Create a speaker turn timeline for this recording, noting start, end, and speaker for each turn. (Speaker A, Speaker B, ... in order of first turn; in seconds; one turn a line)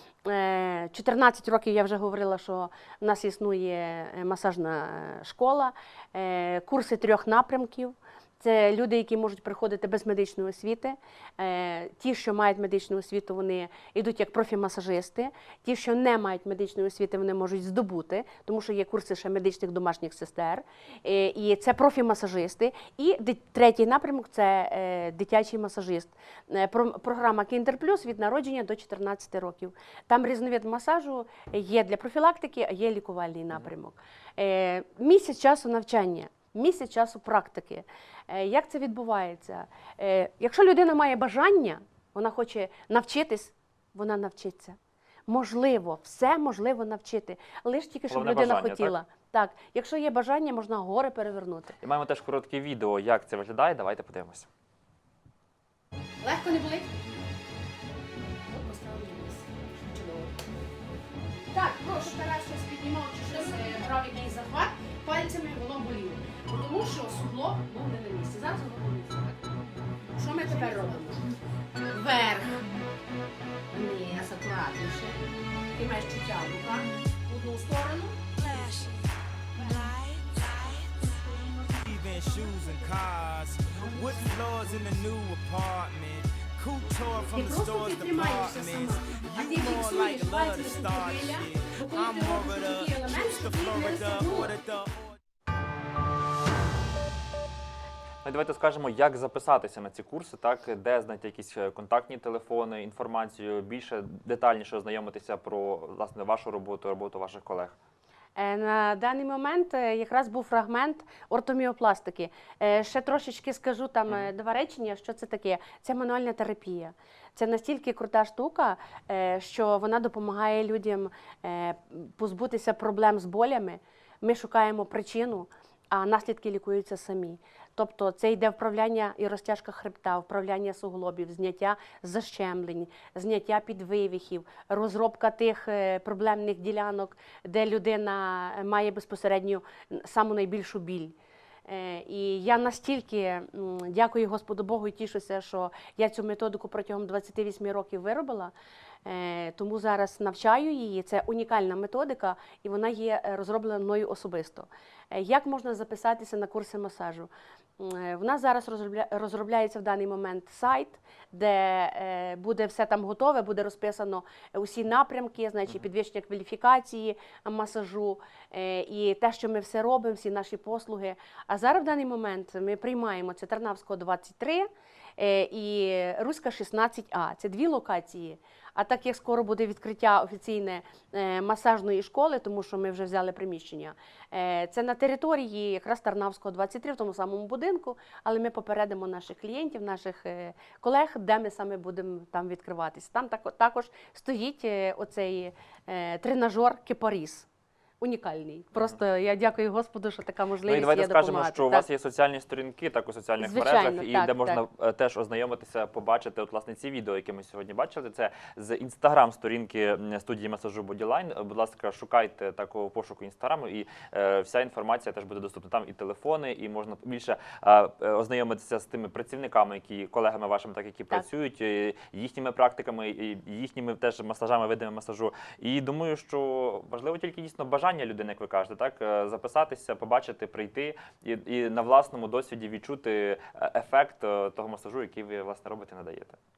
Speaker A: 0.2-44.8
Speaker A: 45.3-51.8
Speaker B: 48.1-49.0
Speaker B: 51.8-54.5
Speaker A: 56.2-56.9
Speaker A: 58.5-60.3
Speaker A: 61.5-69.4
Speaker A: 70.1-71.2
Speaker A: 71.9-72.7
Speaker A: 73.7-80.2
Speaker A: 80.9-81.7
Speaker C: 81.7-95.2
Speaker A: 87.3-94.5
Speaker B: 98.2-107.8
Speaker A: 108.4-141.1
Speaker A: 141.7-148.5
Speaker A: 149.0-197.5
Speaker A: 198.0-201.8
Speaker B: 200.7-236.4
Speaker A: 203.4-204.6